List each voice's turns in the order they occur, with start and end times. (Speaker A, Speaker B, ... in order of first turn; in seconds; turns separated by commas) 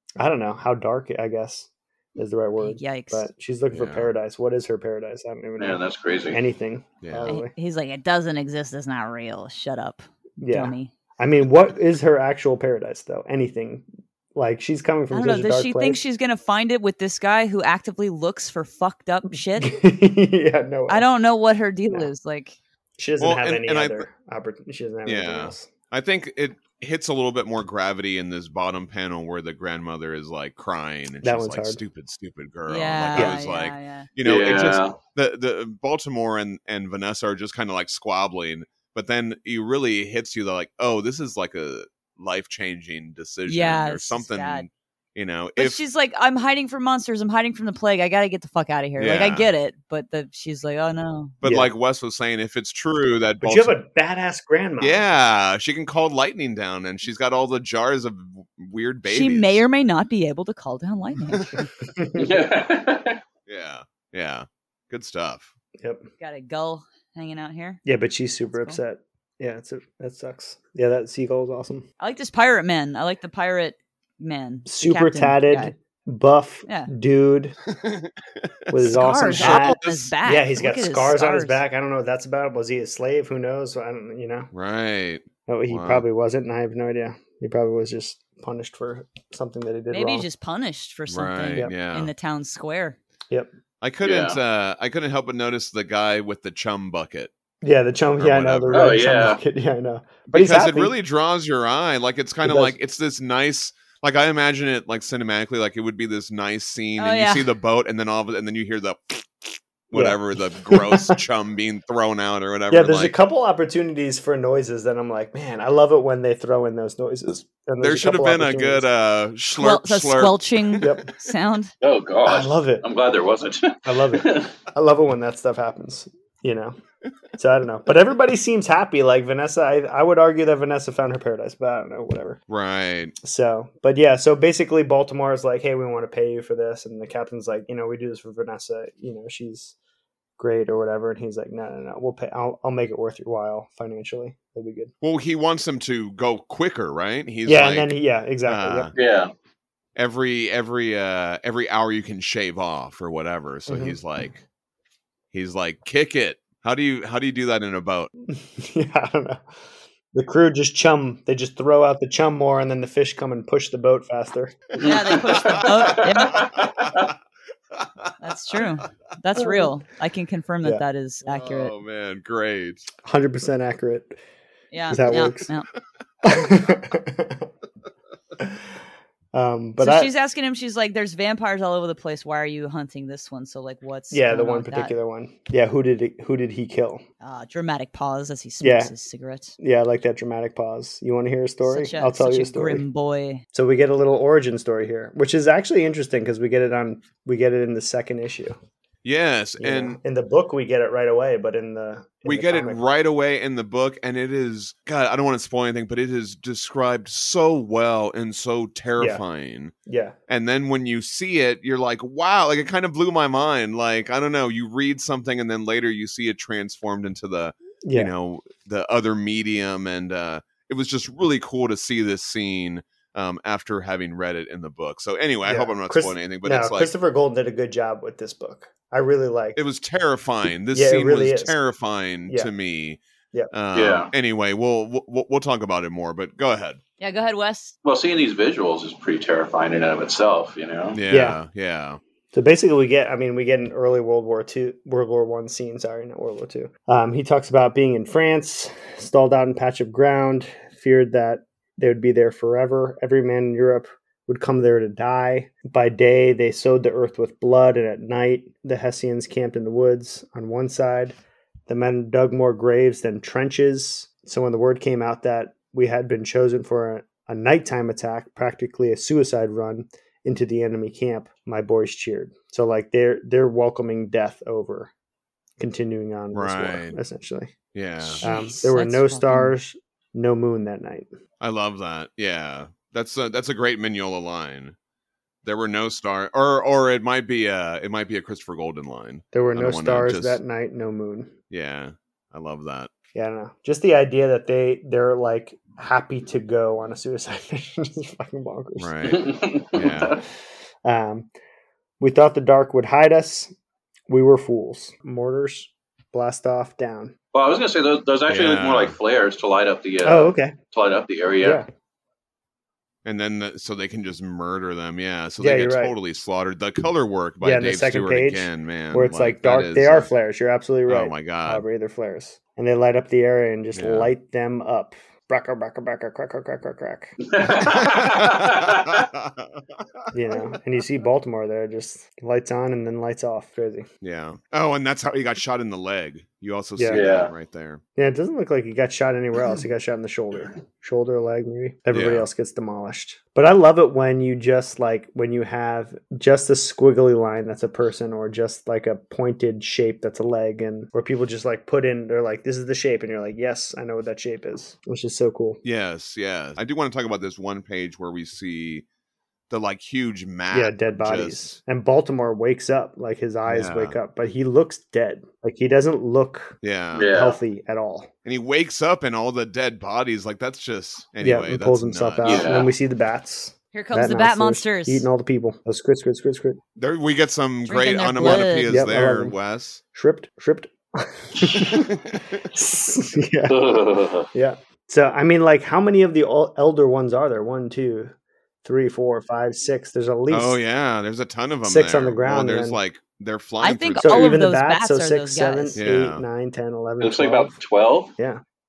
Speaker A: 0.2-7.5, Speaker B: 2.6-3.3, Speaker C: 3.7-4.1, Speaker D: 5.6-6.4, Speaker C: 7.0-7.3, Speaker B: 7.3-10.9, Speaker A: 10.4-16.0, Speaker B: 15.1-19.7, Speaker A: 19.6-21.0, Speaker B: 20.9-22.6, Speaker A: 23.0-25.7, Speaker C: 23.2-24.1, Speaker C: 25.1-45.8, Speaker A: 31.2-31.8, Speaker B: 32.7-34.1, Speaker D: 34.2-35.0, Speaker B: 43.5-44.6, Speaker B: 45.6-51.4, Speaker C: 49.0-49.5, Speaker C: 51.4-53.7, Speaker A: 51.4-51.7, Speaker A: 53.4-55.0, Speaker C: 54.8-59.6, Speaker B: 59.0-61.7, Speaker A: 61.8-62.4, Speaker D: 62.1-63.2, Speaker C: 63.5-65.5, Speaker A: 65.8-66.1, Speaker B: 66.2-67.8, Speaker A: 67.8-71.8, Speaker B: 68.5-68.8, Speaker B: 72.0-75.7, Speaker A: 74.7-77.5, Speaker C: 77.7-80.1, Speaker A: 78.7-84.5, Speaker B: 78.8-81.6, Speaker C: 84.5-86.0, Speaker A: 85.5-90.3, Speaker B: 89.9-93.0, Speaker C: 91.1-92.1, Speaker C: 93.8-97.3, Speaker D: 94.0-94.4, Speaker A: 97.6-100.9, Speaker C: 98.2-99.0, Speaker D: 98.7-99.4, Speaker C: 100.3-113.1, Speaker A: 102.4-102.8, Speaker B: 107.0-107.5, Speaker A: 109.9-111.2, Speaker A: 112.7-118.9, Speaker C: 117.8-120.9, Speaker B: 119.5-121.7, Speaker A: 120.8-121.1, Speaker D: 121.8-124.5, Speaker A: 122.2-122.8, Speaker A: 123.8-126.8, Speaker A: 127.4-132.4, Speaker C: 132.5-133.1, Speaker A: 133.2-139.7, Speaker A: 140.4-144.9, Speaker C: 145.0-148.9, Speaker A: 147.4-148.9, Speaker D: 148.9-149.3, Speaker C: 149.9-154.4, Speaker A: 153.7-154.0, Speaker C: 155.3-158.1, Speaker A: 158.3-159.4, Speaker A: 160.1-164.6, Speaker D: 164.8-167.1, Speaker B: 164.8-166.5, Speaker C: 165.3-167.1, Speaker C: 167.7-168.7, Speaker B: 168.2-171.7, Speaker C: 171.2-172.9, Speaker A: 173.0-174.2, Speaker B: 174.7-175.7, Speaker A: 174.9-175.5, Speaker A: 176.2-177.5, Speaker A: 179.3-180.1, Speaker B: 179.8-184.9, Speaker A: 184.1-187.0, Speaker B: 187.2-189.6, Speaker A: 188.6-188.9, Speaker A: 189.6-192.8, Speaker B: 191.6-193.4, Speaker A: 193.5-198.6, Speaker C: 199.0-200.0, Speaker A: 199.6-202.8, Speaker C: 202.2-209.7, Speaker A: 209.0-209.2, Speaker A: 209.8-210.1, Speaker C: 210.3-226.9, Speaker A: 217.8-218.1, Speaker A: 225.4-229.6, Speaker C: 229.6-233.0, Speaker A: 230.7-231.5, Speaker C: 233.5-236.8, Speaker D: 233.7-234.1, Speaker B: 237.0-237.7, Speaker D: 237.8-241.0, Speaker C: 240.9-242.0, Speaker A: 241.1-241.4, Speaker A: 242.3-261.2, Speaker A: 261.7-274.9, Speaker A: 275.6-281.1, Speaker C: 276.3-277.0, Speaker C: 277.7-278.2, Speaker B: 278.2-279.5, Speaker C: 281.4-284.7, Speaker C: 285.4-290.4, Speaker A: 289.3-291.3, Speaker C: 291.5-292.9, Speaker A: 293.1-298.9, Speaker C: 298.8-300.2, Speaker D: 299.0-300.2, Speaker A: 300.8-301.3, Speaker A: 302.0-303.5, Speaker A: 304.1-307.1, Speaker D: 307.3-311.6, Speaker C: 308.2-308.9, Speaker A: 310.0-310.6, Speaker A: 311.4-311.7, Speaker C: 313.0-320.1, Speaker A: 315.4-315.9, Speaker A: 317.4-327.1, Speaker C: 320.9-321.6, Speaker C: 323.7-324.1, Speaker D: 327.2-329.1, Speaker C: 327.6-330.4, Speaker A: 330.1-333.9, Speaker C: 334.0-337.8, Speaker A: 336.8-337.0, Speaker D: 336.9-337.3, Speaker A: 337.9-355.6, Speaker C: 341.9-342.3, Speaker C: 355.6-358.8, Speaker C: 359.5-361.5, Speaker A: 360.5-368.1, Speaker C: 363.5-363.9, Speaker C: 366.6-367.1, Speaker D: 366.9-367.4, Speaker C: 368.2-372.5, Speaker A: 371.2-376.6, Speaker D: 372.2-372.7, Speaker B: 373.7-375.1, Speaker C: 376.8-379.8, Speaker B: 377.7-378.8, Speaker A: 378.2-379.4, Speaker A: 379.9-381.9, Speaker C: 381.6-382.4, Speaker A: 382.5-383.6, Speaker D: 383.5-384.3, Speaker A: 384.3-390.6, Speaker C: 390.3-394.4, Speaker A: 391.6-392.8, Speaker B: 393.6-395.8, Speaker A: 394.0-397.6, Speaker C: 395.8-396.2, Speaker D: 397.0-398.1